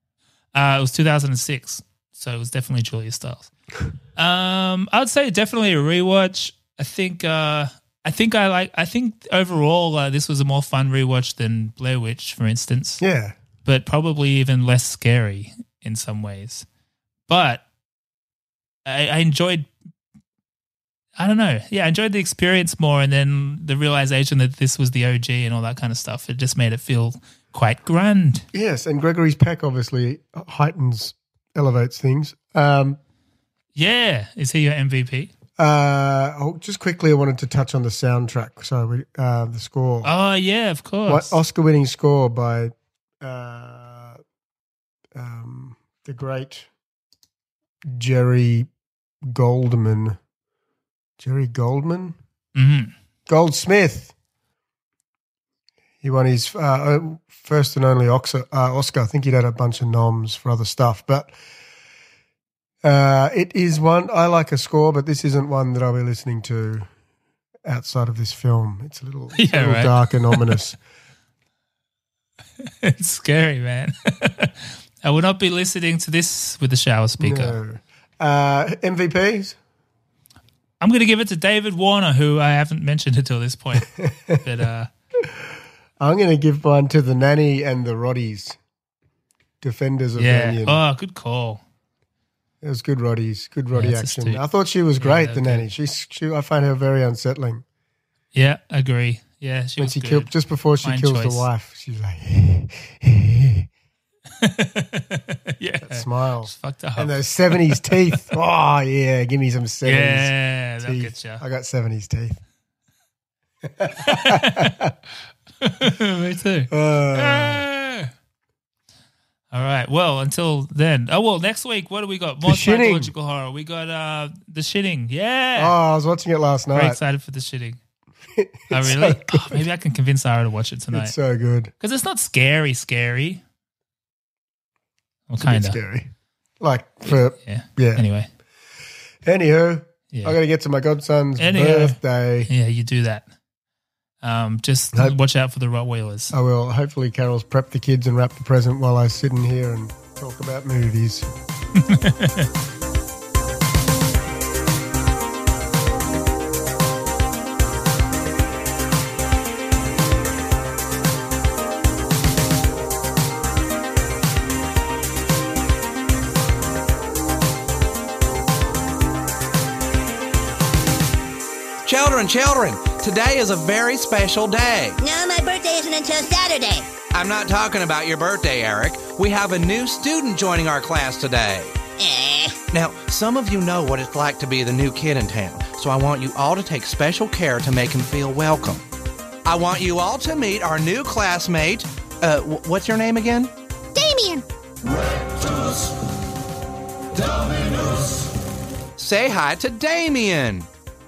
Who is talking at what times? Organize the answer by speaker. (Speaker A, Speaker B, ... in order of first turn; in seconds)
Speaker A: 0.5-3.5, 4.2-13.0, 13.6-16.6, 17.3-17.6, 18.9-19.7, 21.2-28.4, 33.8-35.3, 40.0-41.4, 52.5-52.9, 69.4-70.5, 72.7-77.6, 80.8-84.9, 90.2-91.6, 93.7-94.4, 95.0-95.7, 98.3-101.5, 104.4-108.3, 109.8-111.4, 114.0-114.8, 115.6-118.1, 119.5-125.8, 126.7-127.8, 128.7-131.1, 131.8-133.4, 135.3-135.8, 137.1-138.3, 140.1-140.4, 141.4-143.2, 144.2-146.3, 151.8-152.5
Speaker B: 13.0-13.3, 28.5-33.0, 35.6-40.1, 41.1-44.2, 45.1-46.7, 47.8-48.7, 49.2-50.2, 51.2-52.2, 53.3-54.1, 56.0-61.3, 62.8-66.9, 67.6-70.8, 77.2-79.6, 83.8-84.4, 86.0-88.6, 89.6-90.8, 92.6-97.6, 99.8-103.7, 105.8-112.4, 113.6-114.9, 116.7-117.6, 122.4-123.1, 125.5-127.0, 128.3-129.7, 130.9-131.7, 135.4-136.1, 136.6-138.0, 139.2-142.5, 146.3-151.3
Speaker C: 171.8-175.0, 177.1-181.8, 182.7-188.8, 189.4-193.5, 199.0-200.7
Speaker D: 175.0-176.9, 182.0-182.6, 193.9-194.4